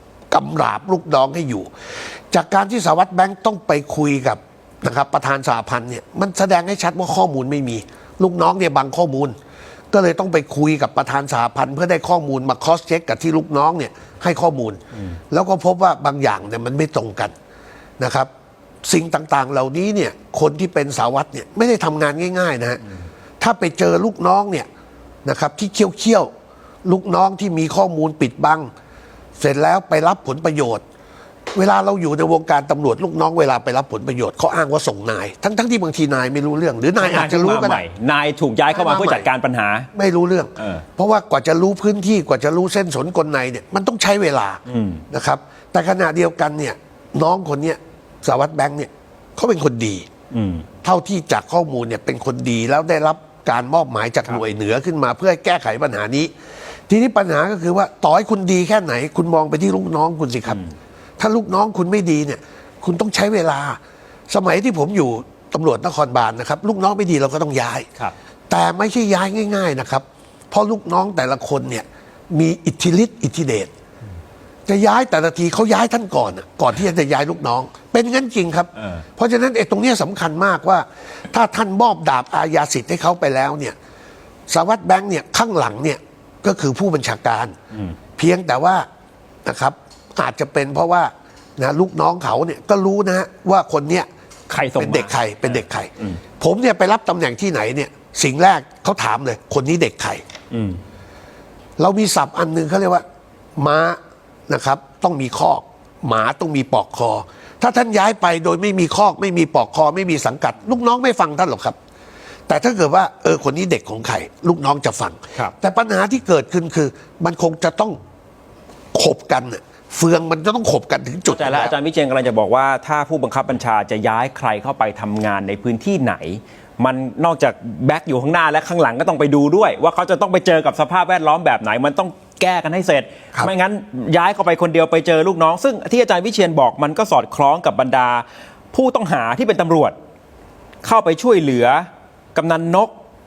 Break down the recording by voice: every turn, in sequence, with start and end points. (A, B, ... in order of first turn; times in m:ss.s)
0:00.3-0:01.7 A
0:02.3-0:09.4 A
0:09.9-0:17.3 A
0:18.0-0:18.3 A
0:18.8-0:22.8 A
0:23.4-0:24.7 A
0:25.2-0:26.3 A
0:26.8-0:28.7 A
0:29.4-0:30.8 A
0:31.6-0:37.8 A
0:37.0-0:39.9 B
0:38.7-0:39.3 A
0:39.9-0:50.1 A
0:40.6-0:40.8 B
0:44.7-0:45.0 B
0:50.3-0:50.7 B
0:50.8-0:56.3 A
0:56.9-1:00.6 A
1:01.2-1:07.9 A
1:08.5-1:13.7 A
1:14.7-1:23.8 A
1:24.5-1:27.6 A
1:28.2-1:28.9 A
1:29.4-1:34.1 A
1:34.5-1:35.2 B
1:34.8-1:40.2 A
1:40.5-1:40.8 B
1:41.8-1:43.0 A
1:43.6-1:51.8 A
1:52.5-1:58.0 A
1:58.9-2:01.7 A
2:01.3-2:20.0 B
2:20.8-2:22.9 B